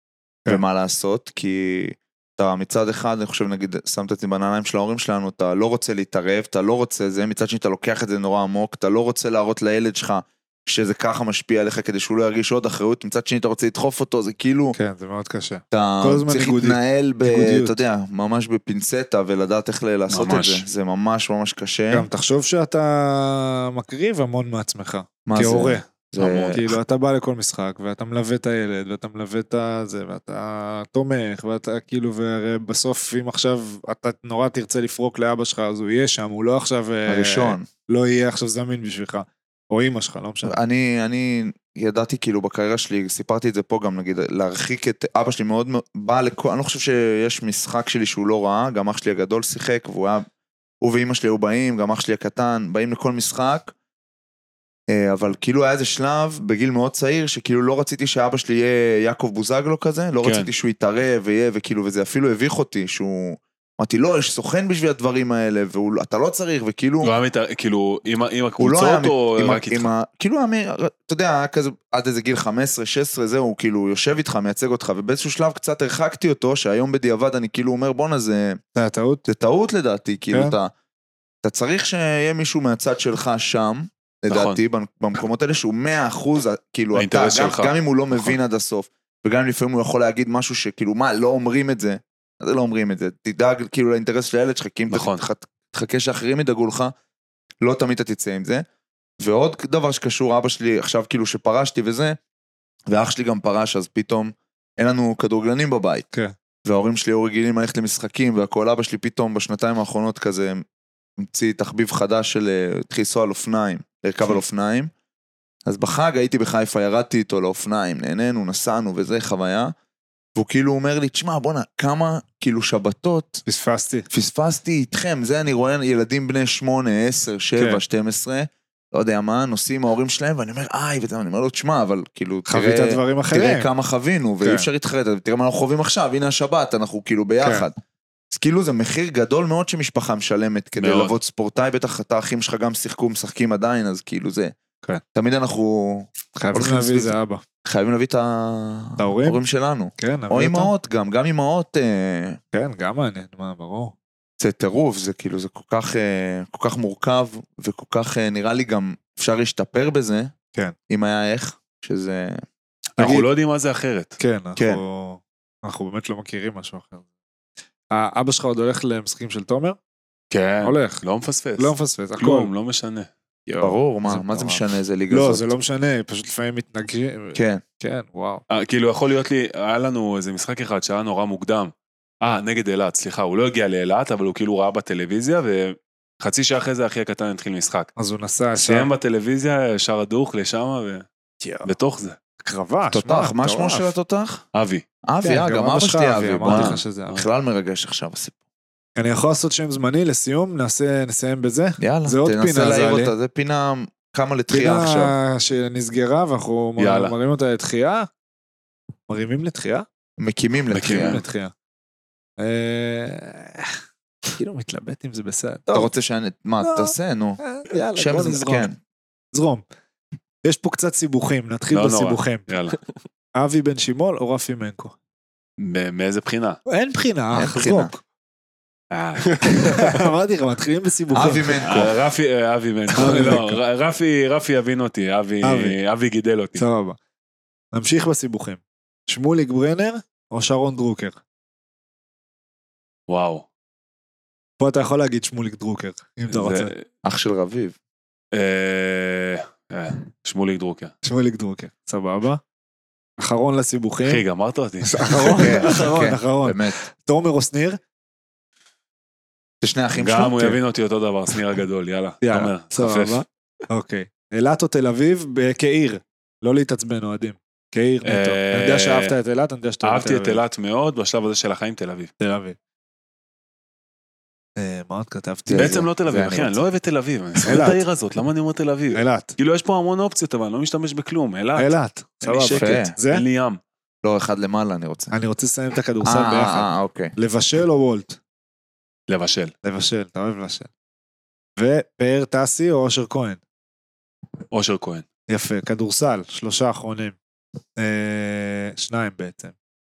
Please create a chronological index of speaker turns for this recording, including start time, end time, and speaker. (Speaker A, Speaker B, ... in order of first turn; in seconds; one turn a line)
Speaker A: 0.5-14.8
Speaker B: 14.8-17.7
Speaker A: 15.7-22.1
Speaker C: 20.1-20.6
Speaker B: 21.9-25.9
Speaker A: 25.2-26.7
Speaker C: 26.2-26.6
Speaker B: 26.5-40.6
Speaker A: 37.1-37.7
Speaker A: 40.5-50.2
Speaker A: 50.8-53.7
Speaker A: 54.9-67.1
Speaker C: 60.2-60.5
Speaker C: 67.0-69.9
Speaker A: 68.6-78.6
Speaker B: 78.8-79.2
Speaker A: 79.3-80.7
Speaker A: 81.4-96.9
Speaker C: 84.3-84.6
Speaker C: 87.0-88.4
Speaker C: 94.9-95.3
Speaker A: 97.6-98.6
Speaker A: 99.2-102.2
Speaker A: 102.9-106.1
Speaker A: 106.7-110.6
Speaker A: 111.2-114.9
Speaker A: 115.7-119.7
Speaker A: 120.4-123.4
Speaker B: 123.5-124.1
Speaker A: 124.1-137.8
Speaker B: 127.5-127.8
Speaker B: 132.5-133.7
Speaker A: 138.3-144.5
Speaker C: 140.8-141.1
Speaker A: 145.1-152.4
Speaker B: 146.4-147.4
Speaker B: 149.0-149.4
Speaker B: 150.0-150.7
Speaker B: 152.5-153.9
Speaker A: 154.4-160.3
Speaker A: 160.9-162.4
Speaker C: 163.0-164.2
Speaker B: 163.0-163.3
Speaker B: 164.2-167.0
Speaker A: 164.6-164.8
Speaker B: 167.9-169.8
Speaker C: 170.3-173.1
Speaker B: 170.6-171.0
Speaker B: 171.6-172.5
Speaker B: 173.5-178.4
Speaker A: 173.6-175.5
Speaker A: 177.3-177.6
Speaker C: 178.5-187.9
Speaker B: 188.0-188.9
Speaker C: 188.6-191.1
Speaker B: 191.4-191.7
Speaker C: 191.6-192.2
Speaker B: 192.4-193.9
Speaker A: 192.9-194.4
Speaker C: 194.5-194.8
Speaker A: 195.1-198.4
Speaker B: 195.2-197.2
Speaker C: 196.4-196.8
Speaker B: 199.0-203.1
Speaker A: 201.8-205.1
Speaker B: 204.5-208.1
Speaker C: 206.8-207.1
Speaker B: 209.1-209.9
Speaker A: 210.2-211.2
Speaker C: 210.7-211.2
Speaker B: 210.9-211.5
Speaker B: 212.4-213.8
Speaker B: 214.4-215.9
Speaker A: 215.7-217.4
Speaker B: 216.6-218.7
Speaker A: 217.9-218.8
Speaker B: 219.3-219.7
Speaker B: 220.4-222.5
Speaker C: 221.7-222.8
Speaker B: 223.3-224.9
Speaker C: 225.6-226.6
Speaker B: 226.7-227.9
Speaker A: 227.3-228.0
Speaker C: 228.9-229.9
Speaker B: 229.6-231.9
Speaker A: 231.1-231.9
Speaker C: 231.6-236.6
Speaker B: 233.0-233.6
Speaker B: 235.4-235.8
Speaker B: 236.6-237.0
Speaker B: 237.7-241.2
Speaker C: 243.1-243.4
Speaker B: 244.6-246.7
Speaker C: 246.3-246.8
Speaker A: 247.0-247.8
Speaker C: 248.3-250.9
Speaker B: 251.0-252.4
Speaker B: 253.2-254.2
Speaker C: 254.1-255.5
Speaker B: 254.8-257.8
Speaker A: 255.4-256.8
Speaker A: 259.6-260.6
Speaker C: 260.0-263.2
Speaker B: 262.2-270.4
Speaker C: 268.1-269.1
Speaker C: 269.8-272.1
Speaker B: 272.2-272.6
Speaker B: 274.6-275.8
Speaker A: 275.5-276.6
Speaker C: 275.6-283.6
Speaker B: 277.5-277.8
Speaker B: 278.9-279.4
Speaker B: 281.6-283.2
Speaker A: 282.6-282.9
Speaker A: 284.0-285.1
Speaker B: 285.1-288.2
Speaker A: 286.1-287.1
Speaker C: 289.1-289.5
Speaker B: 289.6-290.7
Speaker B: 291.6-293.4
Speaker C: 294.5-295.1
Speaker B: 295.3-297.2
Speaker B: 297.8-299.5